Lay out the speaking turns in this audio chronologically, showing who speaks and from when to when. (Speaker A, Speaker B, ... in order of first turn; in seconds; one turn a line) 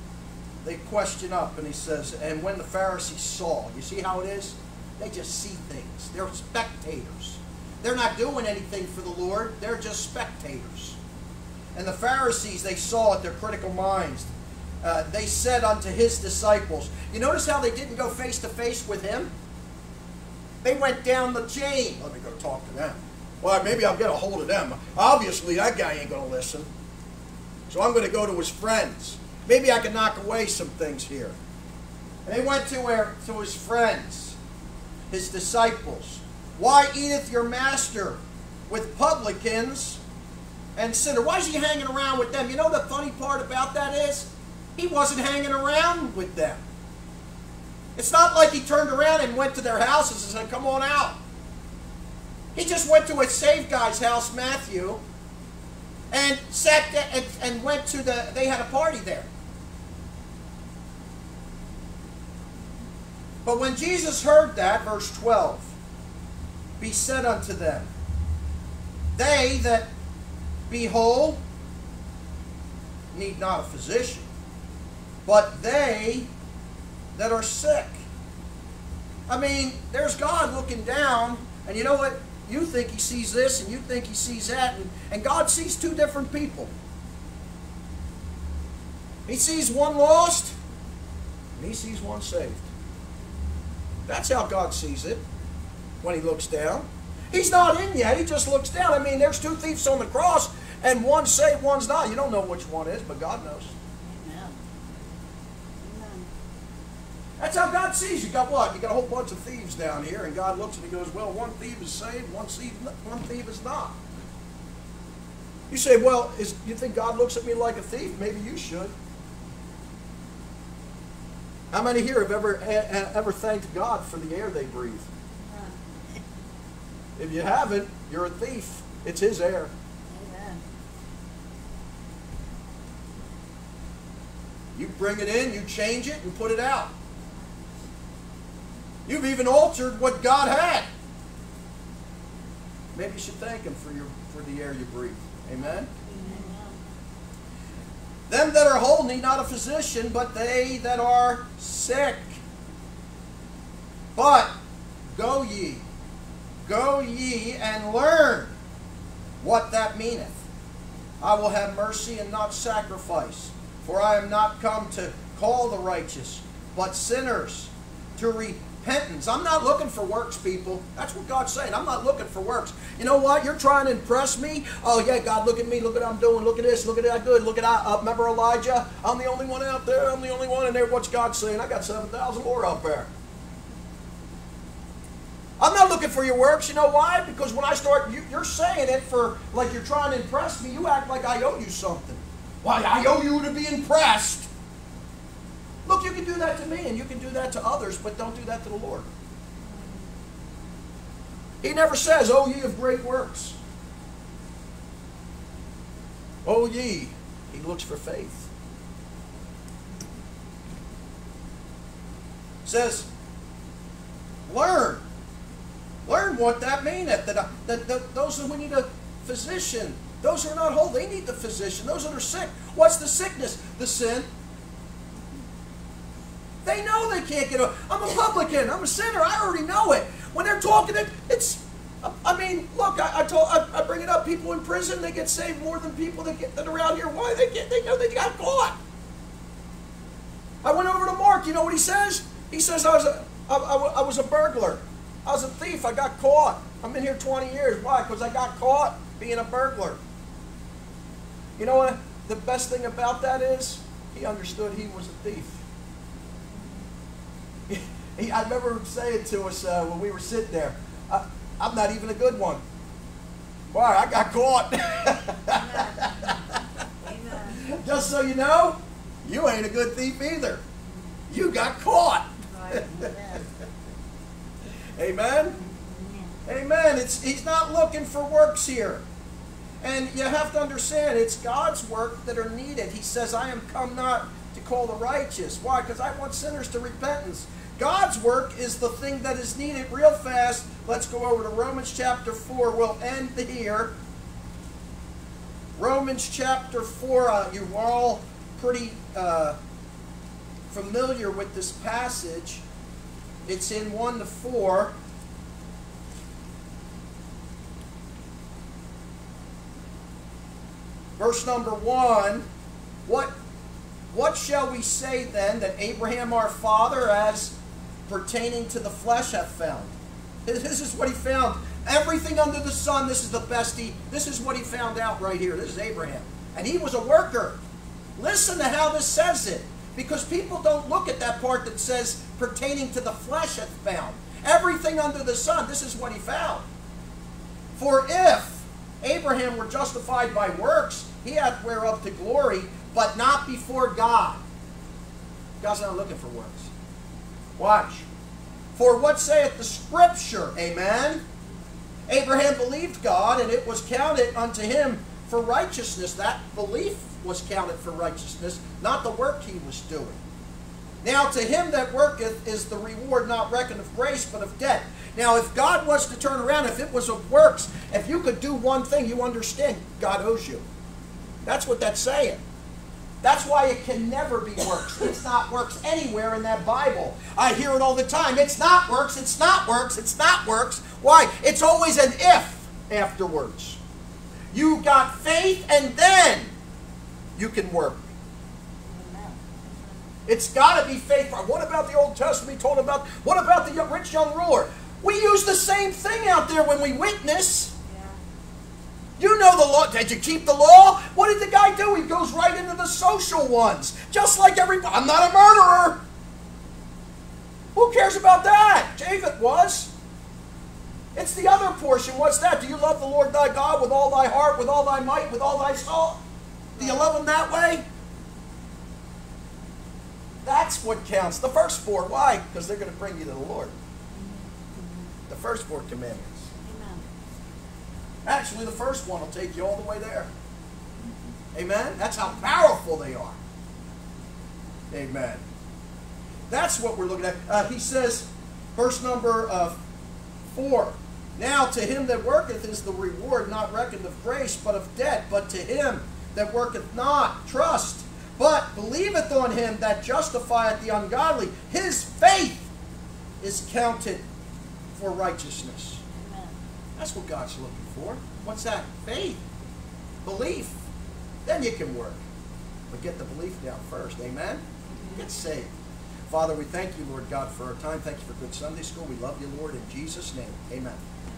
Speaker A: 0.6-11.0
Speaker A: 11.7-14.3
Speaker A: 14.8-19.3
Speaker A: 20.6-26.7
Speaker A: 27.7-31.4
Speaker A: 32.3-34.4
Speaker A: 35.1-38.2
Speaker A: 38.7-40.0
Speaker A: 40.8-46.6
Speaker A: 48.0-51.2
Speaker A: 52.5-55.0
Speaker A: 56.1-59.3
Speaker A: 63.5-65.7
Speaker A: 66.8-67.9
Speaker A: 69.1-69.9
Speaker A: 70.7-71.4
Speaker A: 73.1-74.3
Speaker A: 75.3-76.3
Speaker A: 77.1-78.0
Speaker A: 79.3-86.7
Speaker A: 89.3-90.5
Speaker A: 91.6-92.6
Speaker A: 94.1-95.2
Speaker A: 96.0-103.7
Speaker B: 104.0-104.6
Speaker B: 105.8-106.3
Speaker A: 107.4-114.0
Speaker A: 115.7-118.9
Speaker A: 121.7-125.1
Speaker B: 125.4-126.2
Speaker A: 127.2-129.7
Speaker B: 130.1-130.6
Speaker A: 134.7-136.9
Speaker A: 139.1-140.9
Speaker A: 142.9-145.9
Speaker B: 146.0-146.8
Speaker A: 148.3-152.4
Speaker A: 154.1-154.5
Speaker A: 155.1-155.8
Speaker A: 156.7-158.5
Speaker A: 159.4-160.4
Speaker A: 161.2-183.1
Speaker A: 185.6-194.5
Speaker A: 195.8-199.1
Speaker B: 199.7-200.1
Speaker A: 201.6-203.6
Speaker A: 206.4-208.5
Speaker A: 212.6-213.1
Speaker A: 214.5-215.0
Speaker A: 216.1-224.3
Speaker A: 226.6-238.8
Speaker A: 240.6-250.0
Speaker A: 251.6-255.6
Speaker A: 257.7-262.6
Speaker A: 263.7-266.6
Speaker B: 265.5-266.1
Speaker B: 267.1-267.6
Speaker A: 267.5-270.6
Speaker A: 271.3-273.1
Speaker B: 272.6-273.4
Speaker A: 275.0-275.6
Speaker B: 275.4-276.4
Speaker A: 276.4-279.0
Speaker A: 279.8-293.9
Speaker A: 295.8-299.6
Speaker A: 300.7-302.6
Speaker A: 303.4-304.9
Speaker A: 311.2-312.4
Speaker A: 313.1-313.3
Speaker A: 314.1-317.6
Speaker A: 318.1-319.9
Speaker A: 320.4-327.6
Speaker A: 328.2-336.6
Speaker A: 337.8-344.4
Speaker A: 345.6-346.7
Speaker A: 347.6-348.1
Speaker A: 348.8-351.2
Speaker A: 352.1-360.2
Speaker A: 361.0-370.6
Speaker A: 371.4-372.4
Speaker A: 373.2-383.8
Speaker A: 384.5-386.5
Speaker A: 387.4-388.0
Speaker B: 388.8-389.9
Speaker A: 390.3-397.7
Speaker B: 397.9-398.2
Speaker A: 399.2-406.0
Speaker A: 407.7-409.9
Speaker A: 411.1-416.2
Speaker A: 416.8-417.8
Speaker A: 420.4-423.7
Speaker B: 424.1-425.1
Speaker A: 425.3-426.5
Speaker B: 426.6-427.1
Speaker A: 428.2-430.3
Speaker A: 431.5-433.4
Speaker A: 434.9-435.4
Speaker A: 436.5-439.8
Speaker A: 440.5-452.7
Speaker A: 453.4-454.2
Speaker A: 454.9-456.0
Speaker B: 456.1-456.6
Speaker A: 457.0-459.4
Speaker A: 460.2-460.8
Speaker A: 461.4-462.2
Speaker A: 462.9-464.6
Speaker B: 464.9-465.2
Speaker A: 465.1-465.7
Speaker A: 466.3-471.0